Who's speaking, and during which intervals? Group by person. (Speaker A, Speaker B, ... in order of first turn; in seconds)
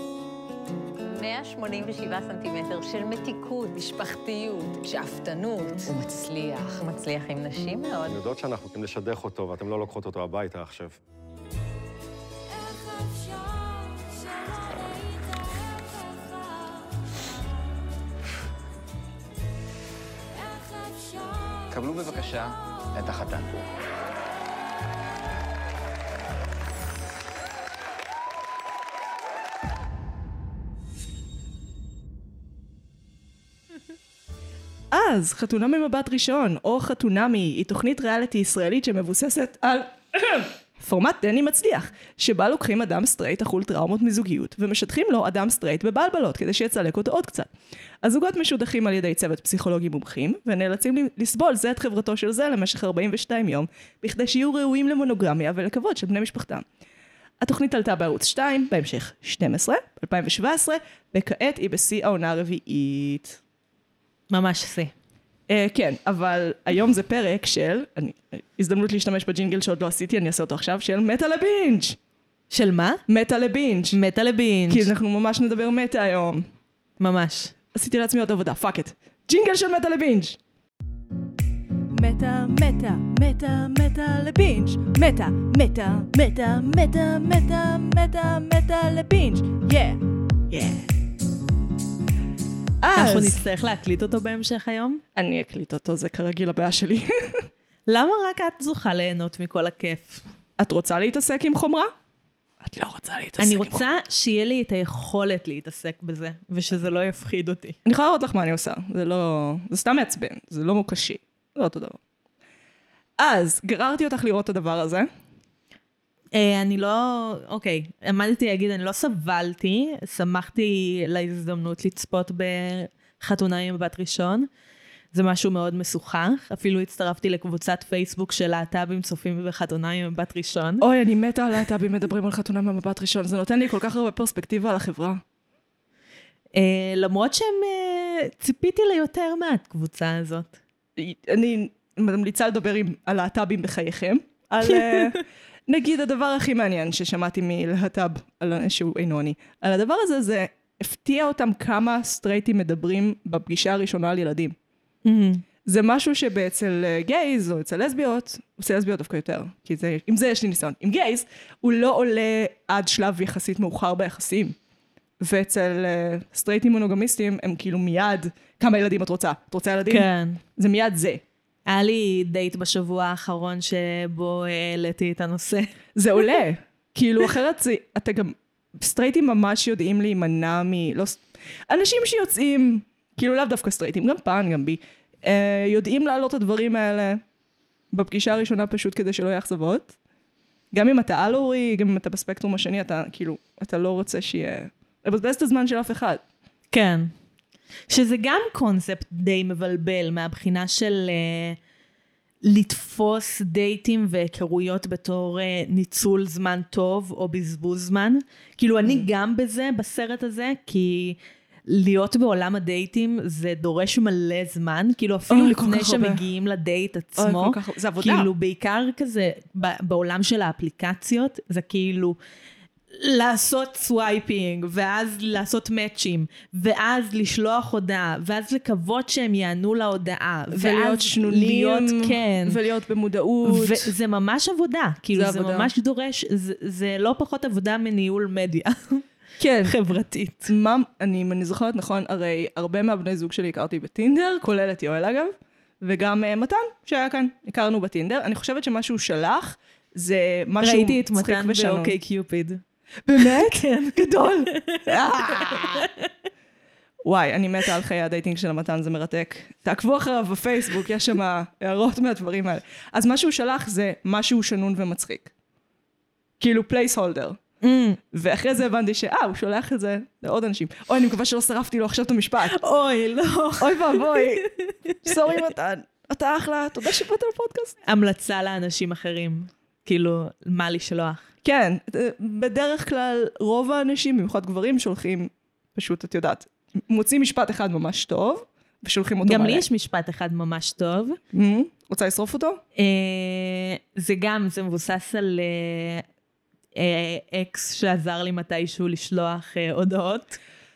Speaker A: 1.0-8.2
Speaker B: 8.1-11.0
Speaker C: 21.7-23.6
Speaker D: 34.9-47.5, 48.0-56.6, 57.4-63.4, 65.5-72.0, 73.1-74.0, 74.7-76.5, 77.7-80.4, 81.9-90.0, 90.5-90.9, 92.8-93.4, 95.2-97.5, 100.6-101.9, 102.6-103.8, 107.8-112.0, 113.2-115.1, 130.8-135.2, 141.0-154.5, 155.7-164.6, 165.2-171.2, 175.9-187.2, 187.9-189.9, 190.7-196.2, 215.3-216.2, 217.2-218.3, 230.5-233.9, 235.1-235.7, 239.4-239.8, 240.5-251.9, 253.1-255.9, 257.0-265.3, 266.4-267.4, 268.1-272.6, 273.6-274.5, 275.0-277.8, 281.4-289.6, 291.3-292.6
Speaker E: 64.3-64.9, 72.5-73.0, 73.9-74.9, 77.0-77.5, 92.9-95.0, 97.9-100.2, 103.4-107.8, 116.3-124.5, 125.1-130.8, 136.5-140.6, 155.0-155.4, 169.9-170.4, 171.7-175.7, 196.7-197.1, 197.9-201.6, 202.4-222.2, 222.9-232.6, 233.4-239.0, 239.6-240.5, 250.6-252.6, 253.2-256.1, 267.6-268.0, 272.5-275.1, 277.9-281.2, 289.2-291.2, 292.8-296.0, 296.7-300.4